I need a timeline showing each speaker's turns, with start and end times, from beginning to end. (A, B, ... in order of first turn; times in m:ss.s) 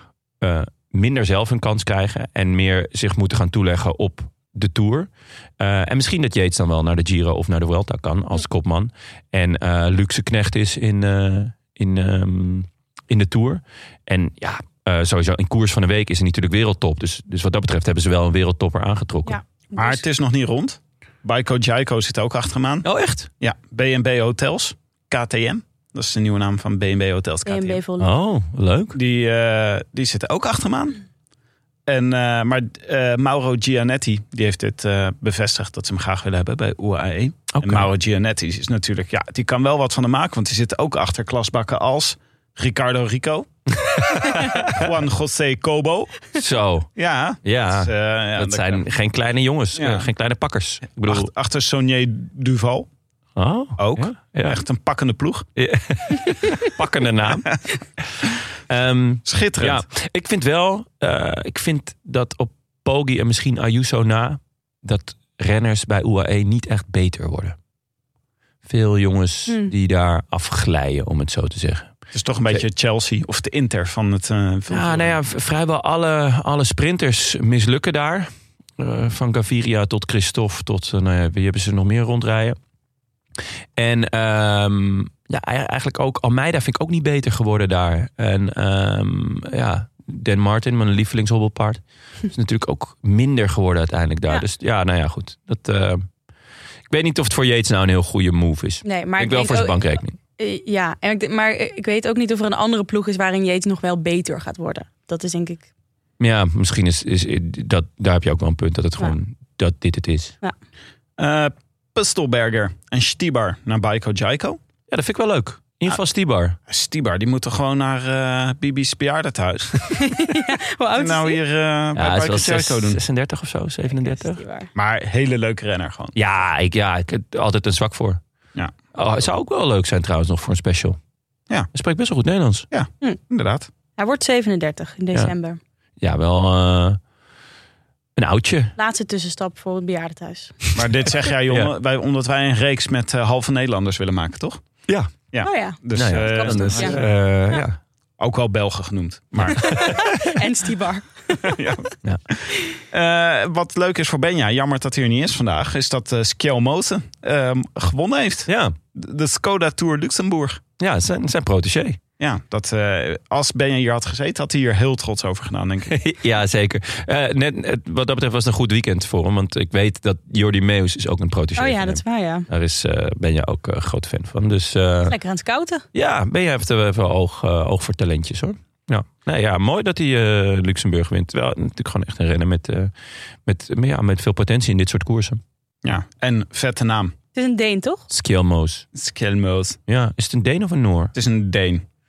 0:00.4-0:19.4 A
0:19.3-0:20.0 B
0:19.8-0:22.9 C
0:22.8-0:23.3 A
0:23.4-0:27.8 C
0:27.5-0:28.2 B
0:28.0-0:29.0 A
0:29.0-0:31.0 C
0:31.9-0:46.3 C
0:37.5-0:37.9 A
0:44.1-0:44.7 A
0:46.4-0:46.9 A
0:47.0-0:48.8 C
0:47.4-0:51.3 A
0:49.8-0:50.1 C
0:51.0-0:52.9 C
0:53.4-0:54.6 A
0:53.8-0:55.5 C
0:55.6-1:07.6 A
0:59.3-0:59.8 C
1:08.7-1:11.9 A
1:09.5-1:09.7 B
1:12.1-1:15.2 C
1:14.7-1:22.6 A
1:23.8-1:36.1 A
1:36.9-1:40.2 A
1:38.8-1:39.8 B
1:40.4-1:45.7 B
1:46.2-1:50.4 A
1:51.2-1:54.6 C
1:54.9-1:56.6 A
1:56.7-1:59.8 C
1:59.9-2:01.4 B
2:01.0-2:03.0 C
2:02.0-2:04.4 A
2:03.9-2:04.7 B
2:04.8-2:06.2 C
2:06.2-2:08.2 A
2:08.9-2:11.0 A
2:11.7-2:12.7 A
2:12.7-2:13.7 C
2:14.0-2:15.6 B
2:16.0-2:17.0 A
2:18.2-2:18.7 A
2:18.8-2:20.6 B
2:20.8-2:24.6 C
2:25.3-2:27.1 C
2:25.4-2:27.0 B
2:25.9-2:27.8 A
2:28.2-2:29.9 C
2:29.5-2:30.3 A
2:29.5-2:31.6 B
2:31.4-2:40.6 C
2:38.5-2:38.8 A
2:40.8-2:42.0 A
2:42.2-2:45.9 C
2:45.9-2:55.2 A
2:51.6-2:52.5 B
2:55.1-2:55.8 B
2:55.9-3:02.9 A
3:03.5-3:05.4 A
3:05.8-3:07.1 C
3:07.4-3:08.1 B
3:08.1-3:08.9 A
3:08.9-3:09.8 C
3:09.9-3:11.1 A
3:11.1-3:11.8 C